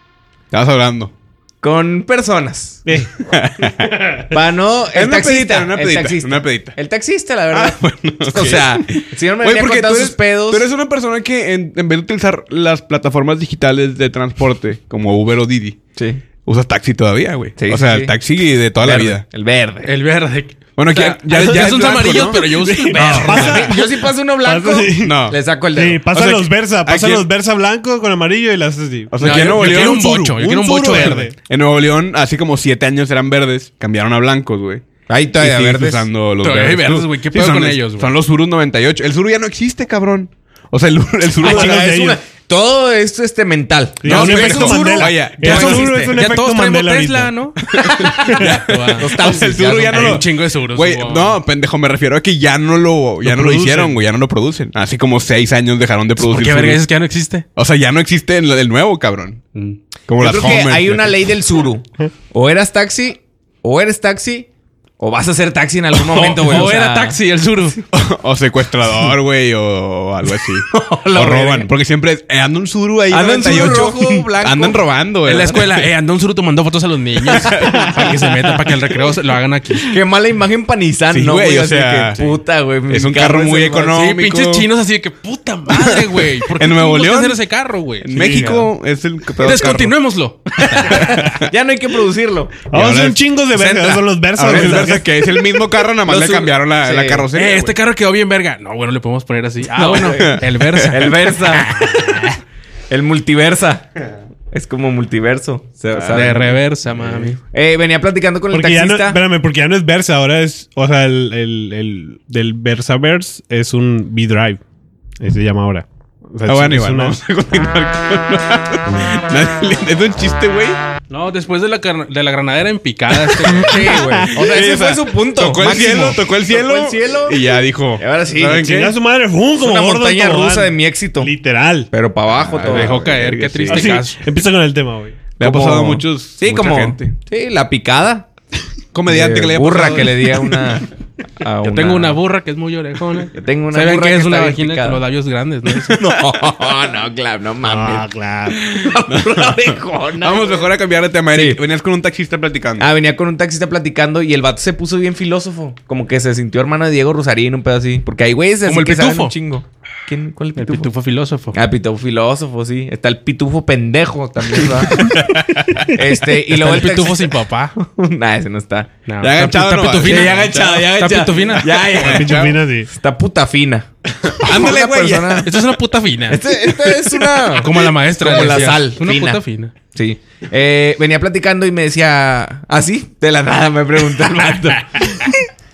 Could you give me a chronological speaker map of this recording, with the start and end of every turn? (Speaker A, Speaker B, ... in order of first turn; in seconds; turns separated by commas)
Speaker A: 0.5-1.1, Speaker B: 1.6-2.8, Speaker C: 2.9-3.1, Speaker A: 3.2-4.4, Speaker B: 4.3-10.7, Speaker A: 4.9-6.8, Speaker A: 7.5-15.8, Speaker B: 15.9-16.2, Speaker A: 16.4-19.2, Speaker B: 17.6-18.2, Speaker B: 18.8-19.9, Speaker D: 19.8-23.8, Speaker A: 20.8-23.6, Speaker B: 20.9-21.4, Speaker B: 22.9-26.0, Speaker C: 23.0-30.0, Speaker A: 25.0-25.4, Speaker A: 26.1-27.3, Speaker A: 29.1-34.8, Speaker D: 29.2-31.3, Speaker C: 30.8-31.3, Speaker B: 35.1-36.1, Speaker A: 35.4-41.8, Speaker D: 36.4-38.1, Speaker B: 41.4-46.2, Speaker C: 41.4-42.2, Speaker C: 44.0-47.3, Speaker A: 44.0-45.9, Speaker D: 45.5-47.6, Speaker A: 47.7-56.8, Speaker B: 47.7-48.3, Speaker C: 48.2-48.6, Speaker D: 48.3-49.3, Speaker B: 49.0-50.2, Speaker D: 49.9-51.4, Speaker D: 53.2-54.0, Speaker D: 56.2-57.5, Speaker A: 57.5-59.4, Speaker A: 60.1-61.1, Speaker B: 60.2-64.5, Speaker B: 65.0-67.2, Speaker D: 66.0-67.8, Speaker A: 67.9-75.8, Speaker B: 70.7-71.7, Speaker B: 73.1-74.8, Speaker D: 73.5-74.1, Speaker D: 75.2-80.0, Speaker A: 77.2-78.8, Speaker B: 79.9-84.0, Speaker A: 81.1-82.2, Speaker A: 82.9-84.7, Speaker D: 83.9-88.5, Speaker A: 86.5-87.4, Speaker A: 88.0-89.9, Speaker B: 88.2-88.7, Speaker D: 89.4-91.1, Speaker B: 90.6-92.5, Speaker A: 90.7-91.5, Speaker C: 92.7-95.1, Speaker A: 92.7-97.7, Speaker B: 96.0-97.3, Speaker D: 97.3-101.5, Speaker B: 99.8-102.3, Speaker A: 100.2-101.2, Speaker B: 102.9-103.9, Speaker B: 104.5-109.2, Speaker A: 105.9-106.3, Speaker D: 106.1-107.4, Speaker C: 108.5-114.6, Speaker C: 115.2-117.2, Speaker A: 116.5-120.8, Speaker D: 121.1-124.0, Speaker A: 123.1-123.6, Speaker B: 123.5-127.4, Speaker A: 124.3-128.9, Speaker B: 128.0-128.8, Speaker C: 128.6-131.9, Speaker B: 129.6-131.3, Speaker B: 131.9-133.1, Speaker A: 132.3-134.0, Speaker D: 132.6-134.2, Speaker C: 133.7-135.2, Speaker B: 135.4-138.3, Speaker A: 135.4-137.1, Speaker A: 138.9-140.8, Speaker B: 139.1-142.2, Speaker D: 141.6-146.0, Speaker B: 143.3-145.0, Speaker B: 145.9-150.7, Speaker C: 147.6-148.7, Speaker A: 148.8-152.9, Speaker B: 151.3-151.6, Speaker B: 152.8-160.9, Speaker D: 158.7-159.3, Speaker D: 160.6-161.6, Speaker B: 161.5-165.2, Speaker A: 164.7-165.9, Speaker B: 165.8-168.9, Speaker D: 166.5-167.8, Speaker D: 169.1-171.8, Speaker A: 169.2-170.9, Speaker B: 170.0-173.9, Speaker A: 171.6-172.6, Speaker C: 172.0-172.9, Speaker A: 174.2-175.5, Speaker B: 174.4-175.5, Speaker D: 175.4-176.4, Speaker B: 176.3-179.4, Speaker D: 177.5-179.7, Speaker B: 179.9-185.3